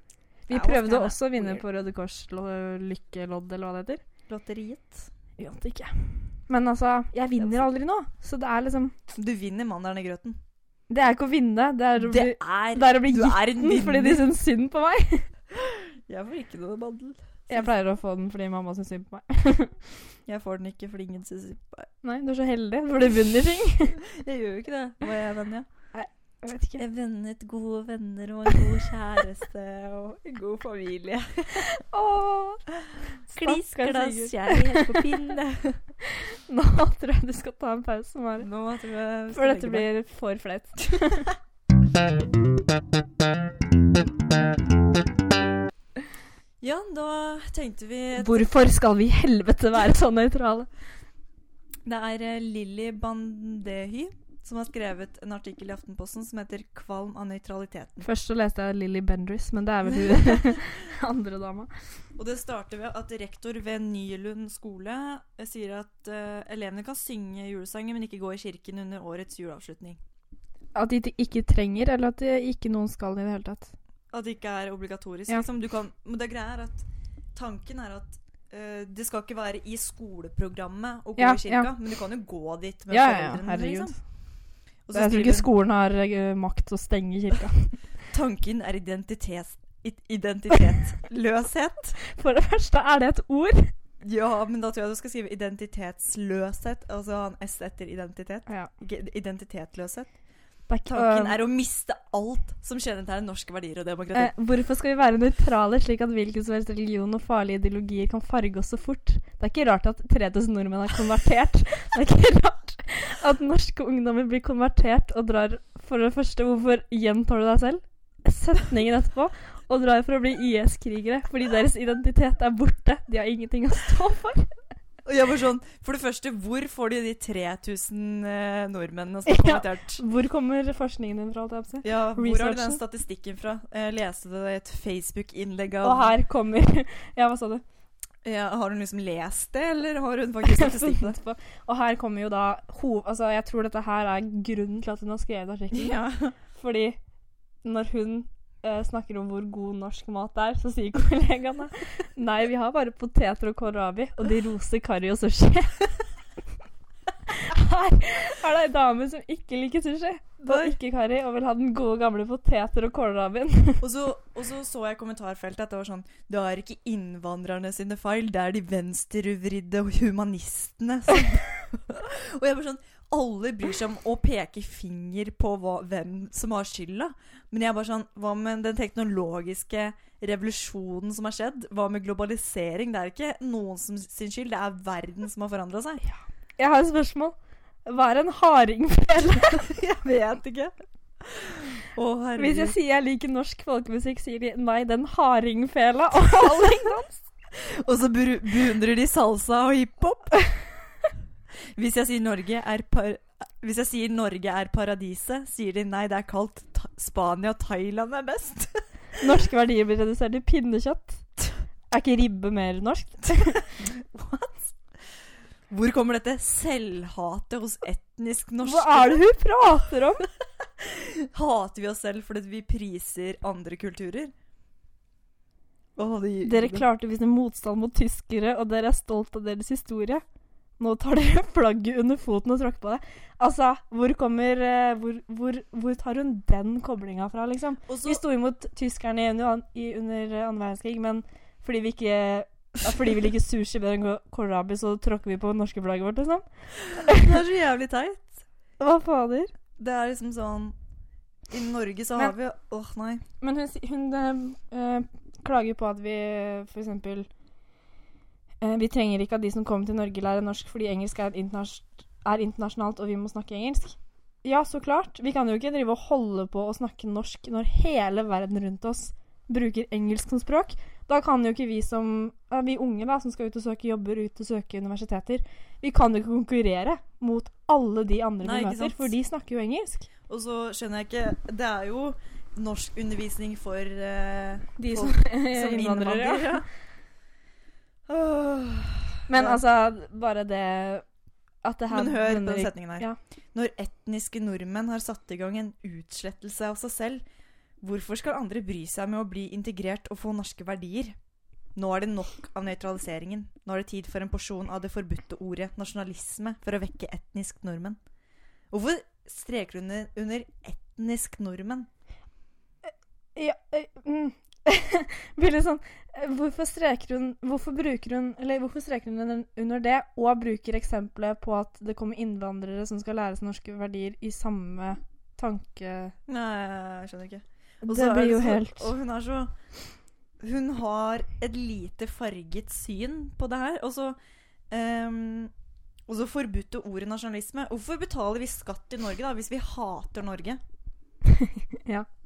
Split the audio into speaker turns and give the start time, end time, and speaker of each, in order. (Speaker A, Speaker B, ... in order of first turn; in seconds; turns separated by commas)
Speaker A: 0.5-4.0, Speaker B: 0.5-1.6, Speaker B: 4.3-5.1, Speaker A: 5.4-8.9, Speaker B: 7.4-7.7, Speaker B: 9.1-10.4, Speaker A: 10.9-15.3, Speaker B: 12.0-14.3, Speaker B: 15.5-17.7, Speaker A: 17.5-19.8, Speaker B: 20.2-21.9, Speaker A: 22.0-24.0, Speaker B: 24.0-25.7, Speaker A: 25.9-26.8, Speaker B: 26.8-31.7, Speaker A: 31.5-32.7, Speaker B: 33.3-35.8, Speaker A: 33.3-35.1, Speaker A: 36.1-38.5, Speaker B: 38.4-39.9, Speaker A: 39.3-41.3, Speaker B: 46.6-48.5, Speaker A: 48.1-50.7, Speaker B: 51.8-58.1, Speaker A: 58.0-61.7, Speaker B: 59.9-60.6, Speaker B: 62.1-70.0, Speaker A: 70.7-73.7, Speaker B: 74.1-84.0, Speaker A: 81.2-81.7, Speaker A: 82.9-84.0, Speaker B: 84.8-85.5, Speaker A: 84.9-87.8, Speaker B: 88.1-92.0, Speaker A: 92.0-93.7, Speaker B: 94.0-100.1, Speaker A: 100.7-101.4, Speaker B: 100.8-104.3, Speaker A: 104.1-124.5, Speaker B: 125.0-130.0, Speaker A: 129.2-132.8, Speaker B: 131.8-136.1, Speaker A: 135.8-137.6, Speaker B: 138.2-141.2, Speaker A: 140.4-147.0, Speaker B: 145.7-146.3, Speaker A: 147.6-155.9, Speaker A: 157.3-163.8, Speaker B: 160.4-160.8, Speaker B: 163.8-186.0, Speaker A: 186.1-187.3, Speaker A: 187.8-189.7, Speaker B: 189.7-192.8, Speaker A: 192.4-197.2, Speaker B: 197.5-200.4, Speaker B: 201.7-208.8, Speaker A: 209.2-211.2, Speaker A: 211.9-213.7, Speaker B: 213.8-214.7, Speaker B: 215.7-219.2, Speaker A: 218.6-220.3, Speaker B: 220.8-224.3, Speaker B: 225.9-226.8, Speaker A: 226.4-230.2, Speaker A: 230.8-247.3, Speaker B: 237.9-238.2, Speaker B: 246.9-248.4, Speaker A: 248.8-249.5, Speaker B: 249.8-250.8, Speaker B: 251.5-253.2, Speaker A: 253.4-257.3, Speaker A: 258.6-280.1, Speaker B: 278.4-279.1, Speaker B: 280.3-286.7, Speaker A: 284.8-286.6, Speaker B: 288.1-289.6, Speaker A: 289.3-291.1, Speaker A: 291.6-293.2, Speaker B: 291.9-297.2, Speaker B: 297.8-301.1, Speaker B: 301.7-308.0, Speaker B: 308.7-311.9, Speaker A: 313.4-326.1, Speaker B: 326.3-329.5, Speaker A: 327.8-328.9, Speaker B: 330.4-334.2, Speaker B: 334.7-335.5, Speaker B: 336.1-340.6, Speaker A: 341.2-342.1